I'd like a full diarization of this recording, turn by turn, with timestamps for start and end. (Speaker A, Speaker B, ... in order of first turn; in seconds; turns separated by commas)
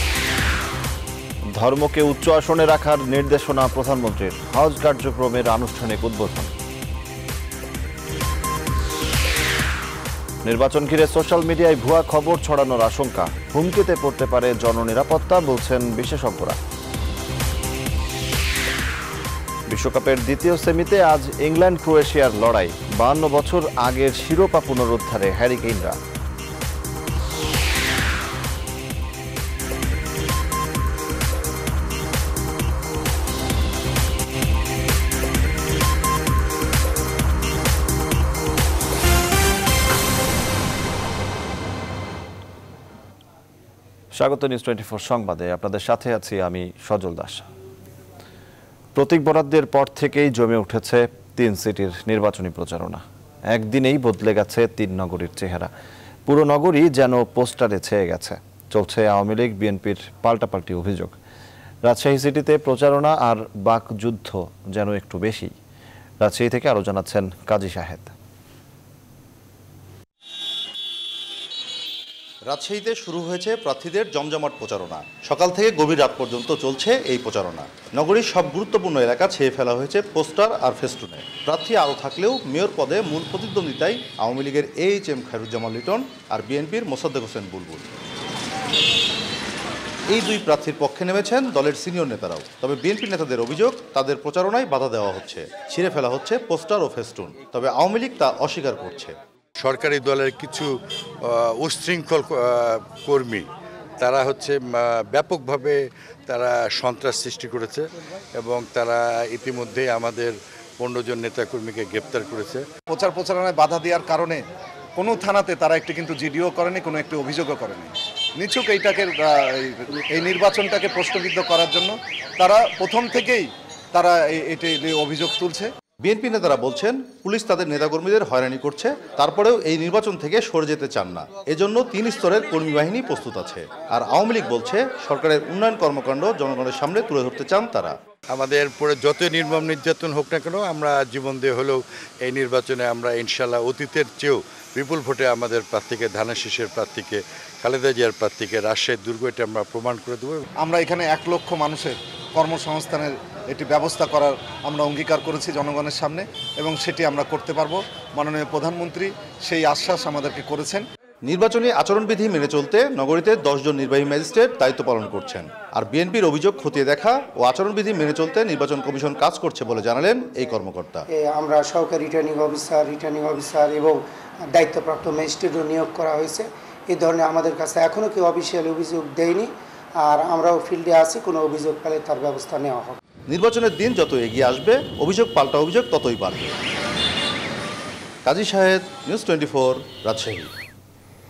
Speaker A: 1.6-6.5, Speaker A: 10.4-16.6, Speaker A: 19.7-26.0, Speaker A: 44.1-47.5, Speaker A: 48.9-55.7, Speaker A: 56.2-61.1, Speaker A: 61.8-65.5, Speaker A: 66.2-68.1, Speaker B: 72.5-87.9, Speaker B: 90.1-99.2, Speaker C: 99.6-100.7, Speaker C: 101.2-103.5, Speaker C: 104.0-107.9, Speaker C: 108.4-112.6, Speaker D: 112.9-114.4, Speaker D: 115.0-125.7, Speaker B: 126.0-137.9, Speaker C: 138.3-150.4, Speaker D: 150.6-160.8, Speaker B: 161.2-171.0, Speaker E: 171.1-174.0, Speaker E: 174.5-179.5, Speaker E: 180.0-182.9, Speaker B: 183.3-186.5, Speaker B: 188.2-190.5